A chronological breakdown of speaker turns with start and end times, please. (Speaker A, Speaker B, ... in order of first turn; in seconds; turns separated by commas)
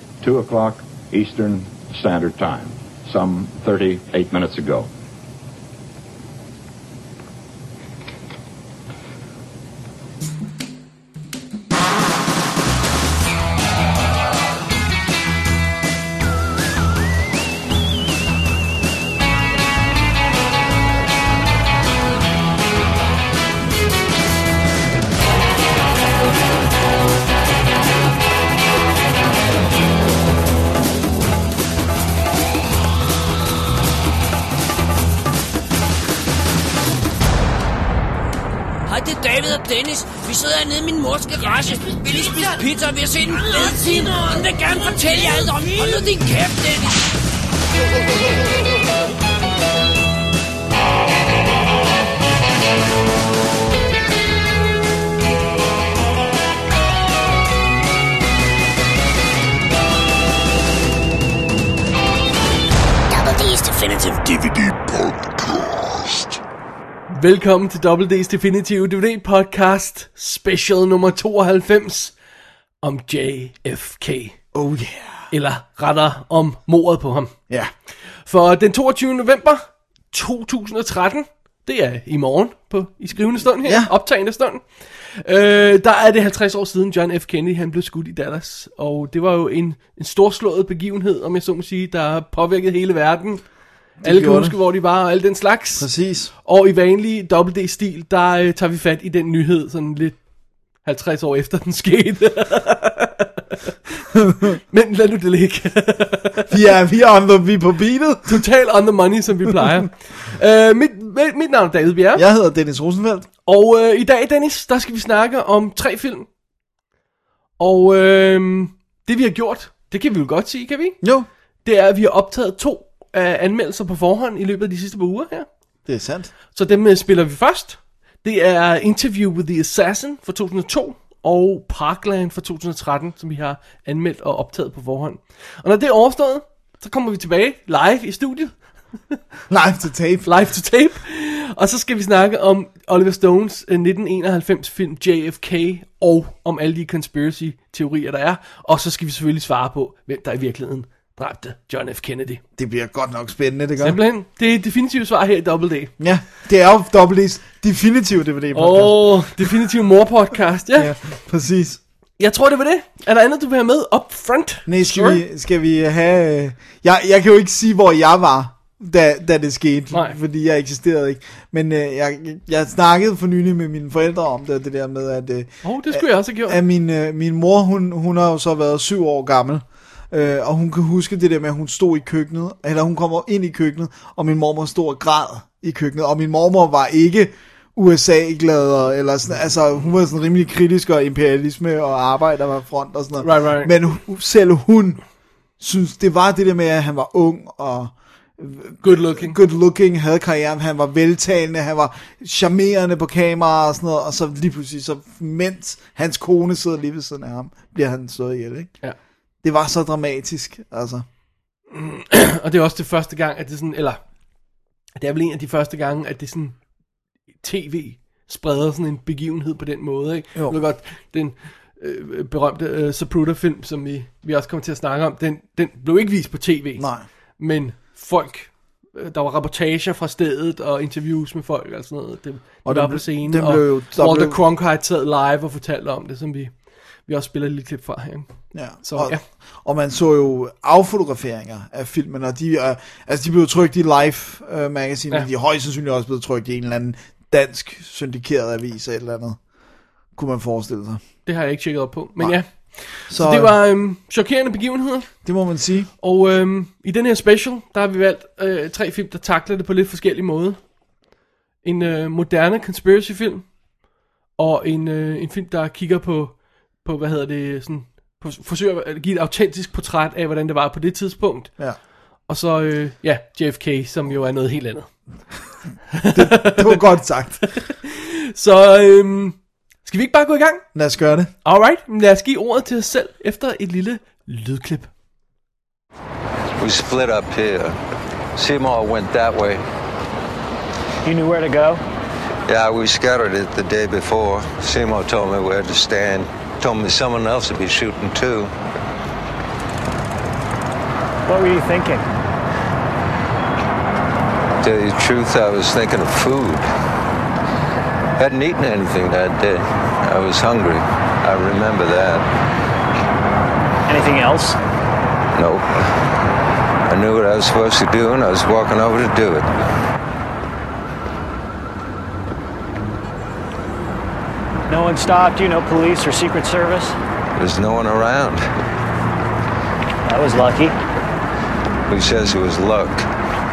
Speaker A: 0.2-4.9, Speaker B: 38.9-47.1, Speaker C: 63.7-66.4, Speaker D: 67.1-72.1, Speaker D: 72.8-74.3, Speaker E: 74.5-75.3, Speaker D: 75.3-77.3, Speaker D: 78.3-84.6, Speaker E: 83.6-83.9, Speaker D: 85.2-93.4, Speaker E: 94.0-94.5, Speaker D: 94.0-95.9, Speaker E: 95.8-96.3, Speaker D: 96.4-100.2, Speaker D: 100.8-103.3, Speaker E: 104.2-104.5, Speaker D: 104.5-106.5, Speaker E: 106.5-108.4, Speaker D: 108.3-112.2, Speaker E: 112.2-113.3, Speaker D: 113.5-116.3, Speaker D: 117.6-121.0, Speaker E: 121.0-121.3, Speaker D: 121.6-125.5, Speaker E: 125.9-126.3, Speaker D: 126.5-138.5, Speaker E: 139.5-140.3, Speaker D: 140.2-152.4, Speaker E: 152.6-154.0, Speaker D: 153.8-155.9, Speaker E: 156.0-159.3, Speaker D: 158.5-160.9, Speaker E: 160.8-161.8, Speaker D: 162.2-165.2, Speaker E: 164.7-195.0, Speaker D: 169.9-170.2, Speaker D: 175.6-176.6, Speaker D: 193.2-193.7, Speaker E: 195.6-208.7, Speaker D: 198.8-199.4, Speaker E: 209.4-211.0, Speaker D: 211.7-214.0, Speaker D: 215.0-216.5, Speaker D: 217.4-226.8, Speaker E: 226.8-227.0, Speaker D: 227.4-236.5, Speaker E: 232.6-234.4, Speaker D: 237.1-238.2, Speaker E: 238.5-249.4, Speaker D: 238.8-239.2, Speaker E: 250.2-251.0, Speaker D: 251.2-255.1, Speaker E: 253.1-253.5, Speaker E: 255.2-255.9, Speaker D: 256.0-260.6, Speaker D: 261.6-263.4, Speaker D: 264.4-271.5, Speaker D: 272.3-274.9, Speaker D: 275.9-276.8, Speaker E: 276.1-277.4, Speaker D: 277.5-280.6, Speaker E: 280.7-281.3, Speaker D: 281.4-284.9, Speaker F: 286.6-287.8, Speaker F: 288.3-289.6, Speaker G: 291.0-291.8, Speaker F: 292.5-298.5, Speaker G: 301.3-302.1, Speaker F: 304.6-306.6, Speaker F: 308.2-312.2, Speaker G: 313.9-314.6, Speaker F: 315.3-315.9, Speaker F: 316.9-319.5, Speaker G: 324.7-326.9, Speaker F: 327.3-328.4, Speaker G: 330.0-330.8, Speaker F: 331.9-333.1